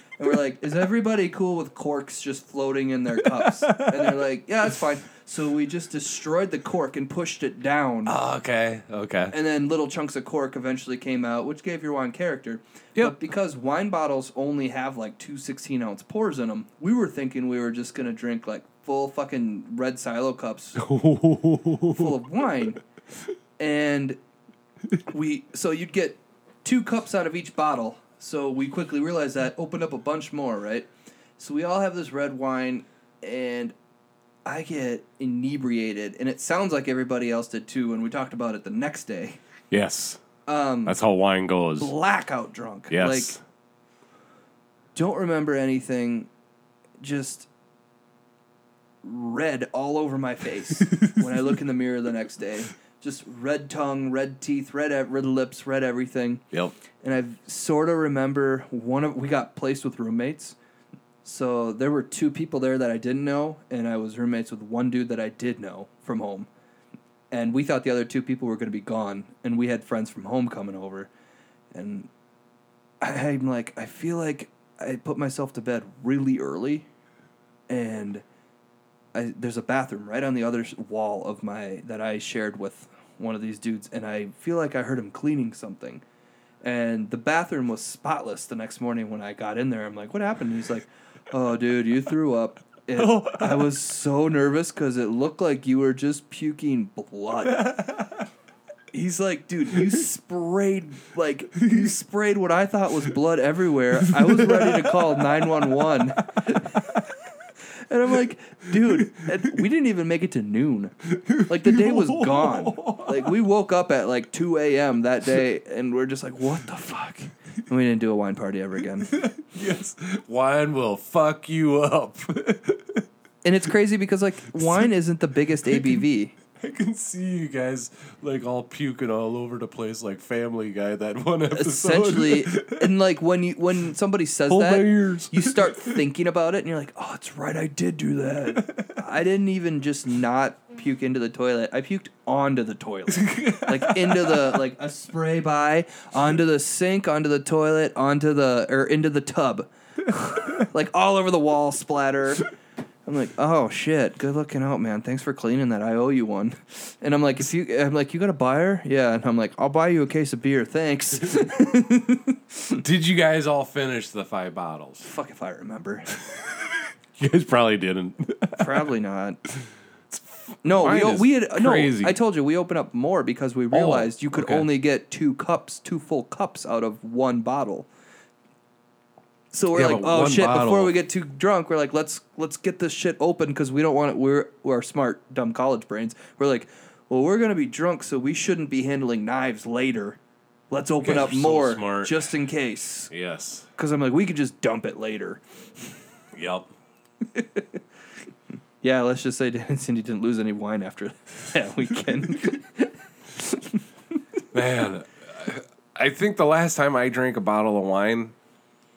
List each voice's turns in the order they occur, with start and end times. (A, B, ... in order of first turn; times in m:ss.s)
0:00.2-0:08.2 A
0:03.4-0:04.1 B
0:08.1-0:09.4 B
0:09.3-0:20.8 A
0:20.8-0:22.2 B
0:21.9-0:22.8 A
0:23.6-0:24.2 A
0:25.1-0:33.8 A
0:34.4-0:39.4 A
0:39.7-0:40.2 B
0:40.5-0:41.0 A
0:40.9-0:41.9 B
0:41.8-0:43.4 A
0:42.9-0:43.4 B
0:45.0-0:46.3 A
0:47.0-0:47.5 A
0:49.0-0:56.4 A
0:57.0-1:00.6 A
1:01.2-1:06.5 A
1:07.3-1:11.1 A
1:11.7-1:12.1 A
1:13.0-1:16.9 A
1:17.7-1:18.2 A
1:19.1-1:26.0 A
1:26.6-1:37.8 A
1:33.0-1:33.7 B
1:37.6-1:38.2 B
1:38.9-1:47.0 A
1:44.1-1:45.6 B
1:47.9-1:59.2 A
1:48.9-1:49.2 B
1:51.2-1:53.3 B
1:59.1-2:03.0 B
2:03.4-2:06.4 A
2:04.6-2:04.9 B
2:05.7-2:06.0 B
2:06.6-2:12.9 B
2:11.5-2:32.5 A
2:14.5-2:16.0 B
2:18.6-2:18.9 B
2:23.1-2:24.6 B
2:33.1-2:42.8 A
2:42.8-2:45.1 B
2:45.0-2:46.1 A
2:47.2-2:48.9 B
2:48.6-2:49.4 A
2:50.1-2:52.2 B
2:50.6-2:57.9 A
2:53.7-2:54.7 B
2:59.5-3:10.2 A
2:59.7-3:01.0 B
3:10.7-3:13.1 A
3:11.0-3:12.4 B
3:13.1-3:13.7 B
3:13.8-3:15.4 A
3:16.3-3:16.7 B
3:17.3-3:17.7 A
3:18.8-3:23.8 A
3:24.5-3:28.3 B